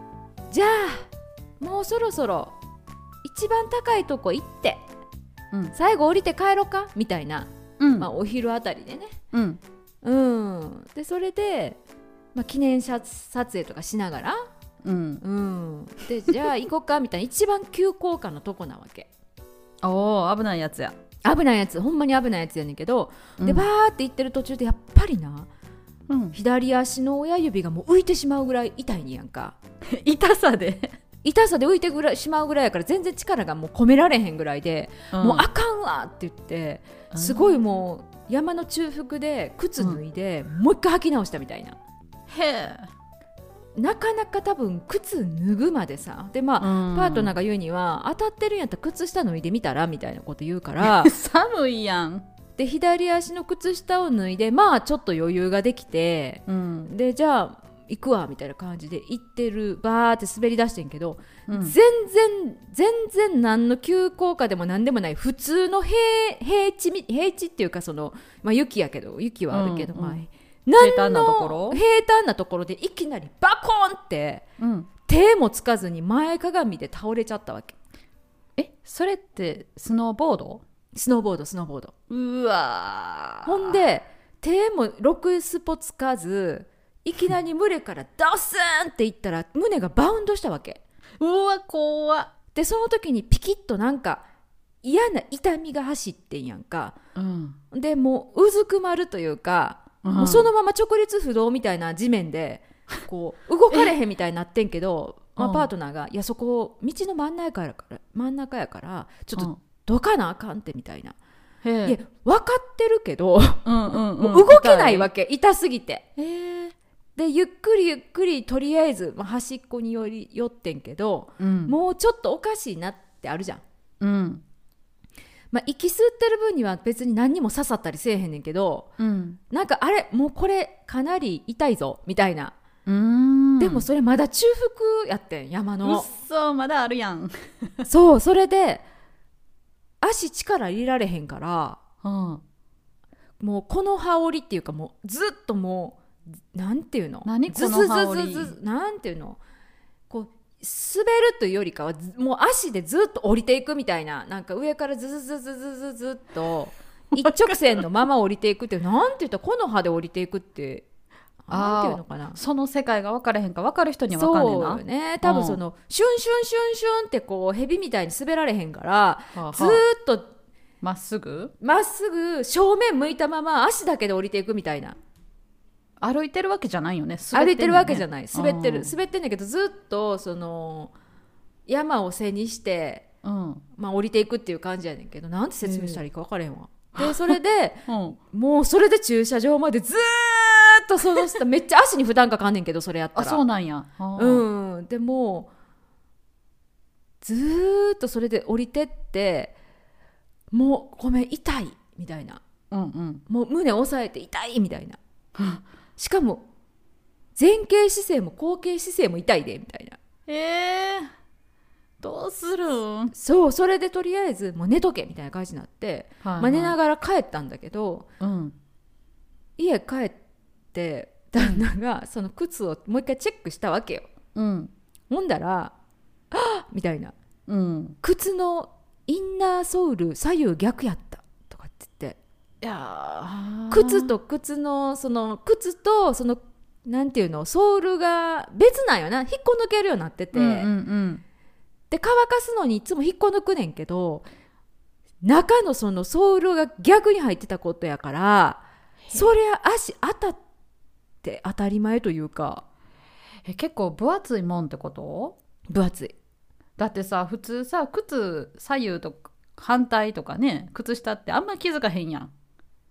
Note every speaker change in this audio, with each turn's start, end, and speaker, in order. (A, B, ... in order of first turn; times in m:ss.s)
0:00.5-0:01.1 A
0:01.6-0:02.6 A
0:03.2-0:04.8 A
0:05.7-0:09.2 A
0:07.8-0:08.1 B
0:09.3-0:09.6 B
0:10.0-0:11.8 A
0:12.3-0:14.5 A
0:14.8-0:15.2 B
0:15.2-0:19.1 A
0:19.8-0:20.9 B
0:21.2-0:25.5 A
0:23.4-0:23.7 B
0:26.1-0:26.4 B
0:26.3-0:29.5 A
0:29.9-0:31.0 B
0:31.2-0:41.8 A
0:35.1-0:35.5 B
0:37.1-0:37.5 B
0:42.3-0:42.9 B
0:43.8-0:51.1 A
0:46.6-0:47.3 B
0:50.8-0:52.2 B
0:52.6-1:14.4 A
0:56.5-0:56.9 B
1:01.5-1:01.8 B
1:09.5-1:10.2 B
1:10.8-1:11.8 B
1:14.6-1:14.9 B
1:15.0-1:17.8 A
1:18.6-1:20.6 B
1:20.9-1:21.9 A
1:22.1-1:23.8 B
1:23.4-1:30.8 A
1:31.2-1:32.3 B
1:32.5-1:34.2 A
1:34.8-1:37.0 A
1:37.2-1:37.6 B
1:37.7-1:51.2 A
1:40.0-1:40.5 B
1:45.4-1:45.7 B
1:51.6-1:52.0 B
1:51.8-1:56.1 A
1:53.6-1:55.1 B
1:56.2-1:56.7 B
1:57.2-2:03.6 A
2:01.4-2:01.8 B
2:04.0-2:04.4 B
2:05.5-2:08.9 A
2:09.0-2:09.4 B
2:09.5-2:12.6 A
2:12.8-2:13.9 B
2:13.6-2:16.1 A
2:15.8-2:17.8 B
2:17.8-2:18.8 A
2:20.0-2:21.8 A
2:22.0-2:22.4 B
2:23.4-2:29.4 A
2:27.2-2:28.5 B
2:30.1-2:40.8 A
2:37.2-2:37.8 B
2:41.5-2:42.4 A
2:41.5-2:45.6 B
2:44.1-2:50.3 A
2:49.3-2:49.8 B
2:50.8-2:51.5 B
2:51.6-2:55.0 A
2:56.0-2:58.9 B
2:57.3-3:00.9 A
3:01.7-3:03.1 A
3:03.2-3:03.6 B
3:03.8-3:13.4 A
3:05.6-3:06.0 B
3:07.0-3:08.2 B
3:13.2-3:14.4 B
3:14.2-3:15.5 A
3:17.2-3:19.5 A
3:20.5-3:22.4 A
3:22.7-3:23.2 B
3:23.3-3:25.0 A
3:26.0-3:26.4 A
3:27.4-3:30.0 A
3:30.3-3:31.1 B
3:32.0-3:33.1 B
3:33.1-3:38.1 A
3:36.2-3:36.8 B
3:38.2-3:38.5 B
3:39.6-3:40.2 A
3:40.7-3:44.1 A
3:41.4-3:41.6 B
3:44.3-3:44.7 B
3:45.1-3:45.7 A
3:46.3-3:47.2 A
3:47.5-3:48.0 B
3:48.0-3:52.2 A
3:52.6-3:54.1 B
3:53.7-4:00.7 A
4:00.3-4:01.2 B
4:01.9-4:04.3 A
4:05.2-4:10.4 A
4:11.2-4:12.6 A
4:13.5-4:15.4 B
4:15.7-4:16.1 A
4:16.8-4:22.3 B